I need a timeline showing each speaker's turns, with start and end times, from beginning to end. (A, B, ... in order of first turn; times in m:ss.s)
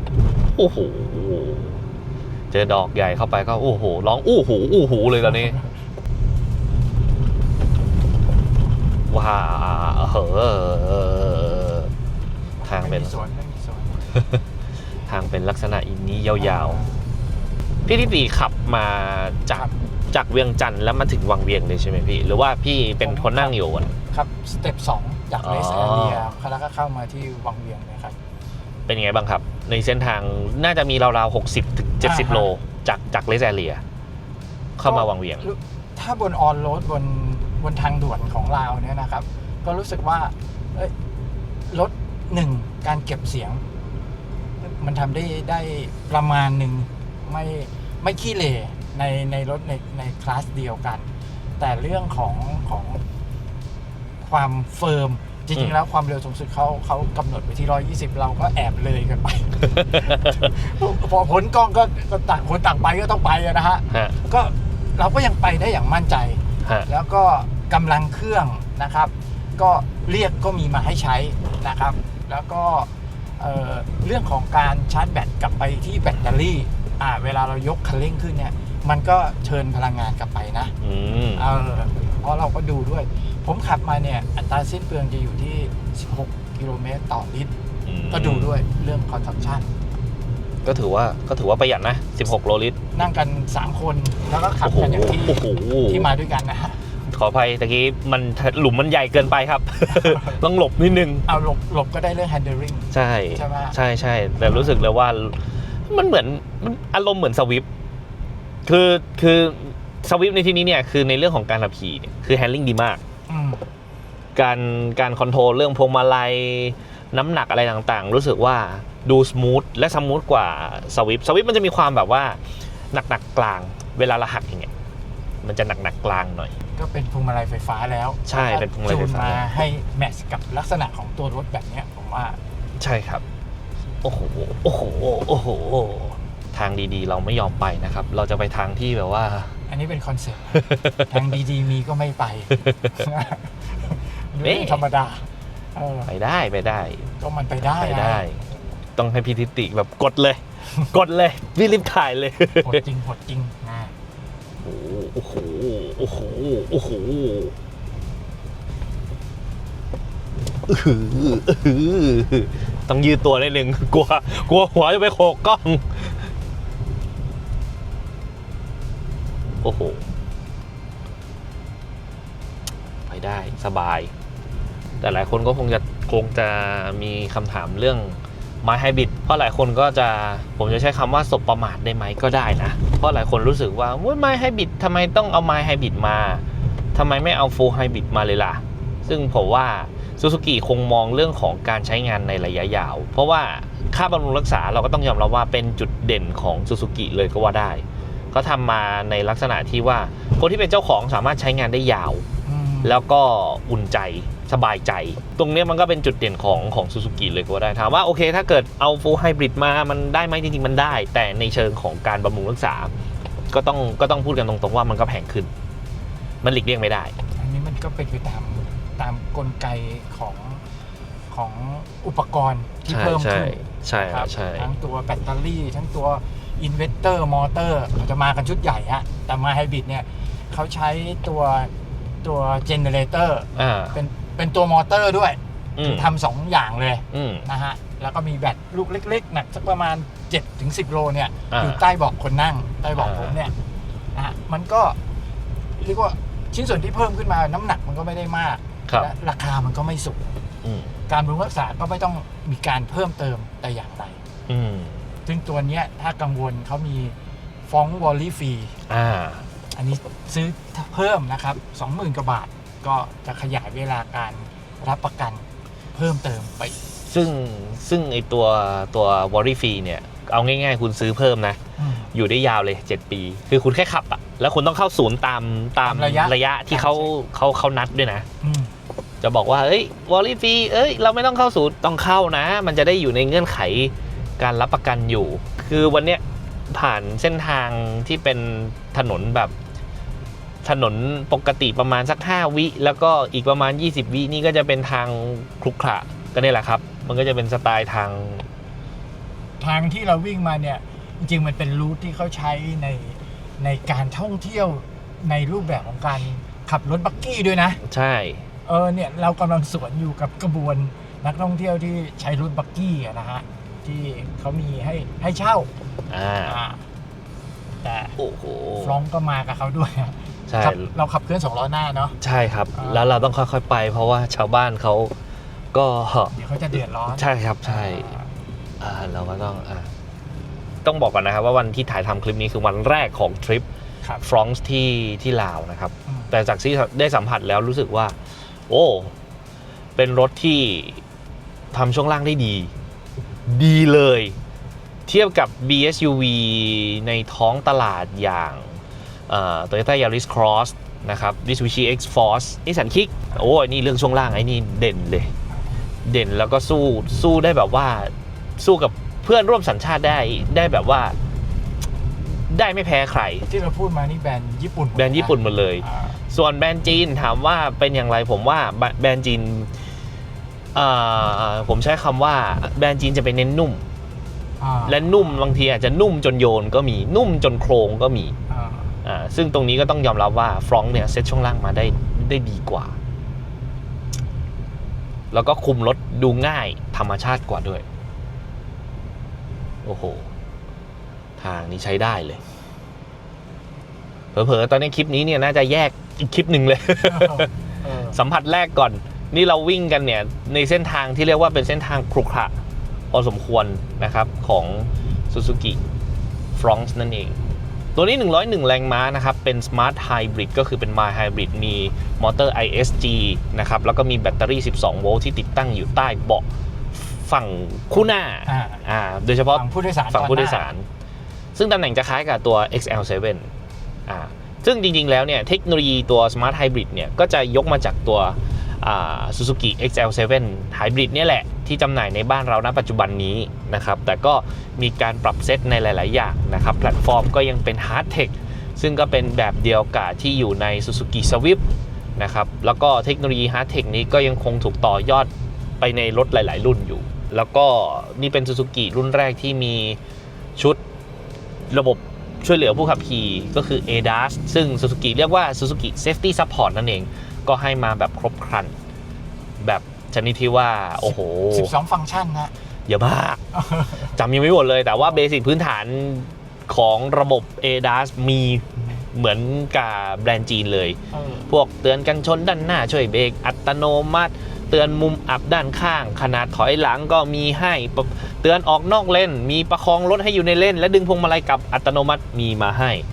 0:00.5-0:01.8 A
0:02.5-0:05.6 A
0:09.1-0:11.9 A
0:12.6-0:14.2 B
0:12.6-0:13.1 A
0:15.0-0:16.8 A
0:16.4-0:17.1 B
0:17.8-0:23.9 A
0:23.0-0:23.6 B
0:24.1-0:28.2 B
0:25.4-0:26.3 A
0:28.9-0:33.8 A
0:32.0-0:32.5 B
0:34.8-0:35.4 A
0:34.8-0:40.9 B
0:41.7-0:43.6 B
0:44.6-0:51.1 B
0:51.6-0:53.0 B
0:54.2-1:20.7 B
0:59.8-1:00.4 A
1:03.9-1:04.2 A
1:20.8-1:21.4 A
1:21.4-1:27.5 B
1:27.8-1:28.5 A
1:28.1-1:29.7 B
1:30.6-1:32.8 A
1:32.9-1:36.8 B
1:34.6-1:36.1 A
1:37.1-1:41.2 A
1:39.9-1:40.4 B
1:41.3-1:43.8 B
1:42.9-1:47.7 A
1:48.6-1:53.0 A
1:53.3-1:53.6 B
1:54.3-2:02.4 A
2:02.9-2:04.7 A
2:05.4-2:06.5 A
2:06.8-2:12.4 B
2:08.2-2:09.5 A
2:12.8-2:13.2 A
2:14.0-2:19.5 A
2:19.7-2:26.1 B
2:20.7-2:21.1 A
2:24.4-2:24.8 A
2:26.0-2:27.1 A
2:27.2-2:28.2 B
2:27.8-2:28.4 A
2:29.0-2:32.8 A
2:32.6-2:33.9 B
2:34.6-2:37.5 A
2:40.7-2:46.3 A
2:49.6-2:50.0 A
2:53.0-2:54.1 A
2:55.0-3:22.2 A
3:22.4-3:23.0 B
3:22.8-3:32.9 A
3:33.5-3:35.5 A
3:36.4-3:37.1 A
3:37.4-3:40.6 B
3:41.3-3:51.7 B
3:42.9-3:44.7 A
3:52.2-4:03.5 B
3:53.5-3:53.9 A
3:55.8-3:56.1 A
3:57.1-3:57.4 A
4:01.5-4:01.8 A
4:03.0-4:03.4 A
4:04.1-4:05.0 B
4:05.8-4:10.3 B
4:10.6-4:10.9 A
4:11.1-4:14.2 B
4:14.5-4:15.0 A
4:15.2-4:17.1 B
4:17.6-4:18.8 B
4:18.9-4:19.5 A
4:19.7-4:26.8 B
4:27.0-4:31.6 A
4:31.8-4:32.1 B
4:32.1-4:38.3 A
4:35.8-4:37.1 B
4:38.4-4:38.7 B
4:39.2-4:49.5 A
4:50.6-4:58.4 A
4:59.6-5:07.8 B
5:07.8-5:08.4 A
5:08.6-5:15.7 B
5:16.1-5:16.6 A
5:16.4-5:16.8 B
5:17.8-5:18.2 B
5:18.2-5:19.0 A
5:18.8-5:22.2 B
5:20.5-5:20.9 A
5:22.2-5:25.1 A
5:22.7-5:23.1 B
5:25.7-5:26.4 A
5:26.3-5:28.3 B
5:27.1-5:28.1 A
5:28.8-5:29.9 A
5:30.8-5:33.6 A
5:34.2-5:38.2 A
5:38.7-5:39.1 A
5:40.0-5:41.0 A
5:41.7-5:42.7 A
5:43.4-5:44.4 A
5:45.0-5:55.3 A
5:56.0-6:01.2 A
6:02.2-6:03.4 A
6:03.4-6:06.2 B
6:04.9-6:09.7 A
6:10.7-6:13.8 A
6:14.6-6:15.2 B
6:14.8-6:18.3 A
6:18.5-6:18.9 B
6:19.0-6:23.0 A
6:25.3-6:27.8 A
6:29.8-6:30.3 A
6:31.4-6:32.4 A
6:34.3-6:37.5 A
6:37.0-6:38.2 B
6:38.1-6:42.5 A
6:43.1-6:45.8 A
6:46.5-6:47.4 A
6:47.9-7:00.9 A
6:58.5-6:58.8 B
6:59.5-7:00.7 B
7:01.5-7:03.5 A
7:04.1-7:21.6 A
7:22.2-7:30.0 A
7:31.7-7:38.8 A
7:39.6-7:41.7 A
7:41.0-7:42.5 B
7:42.9-7:43.4 A
7:43.5-7:44.2 B
7:44.1-8:03.0 A
7:51.1-7:51.5 B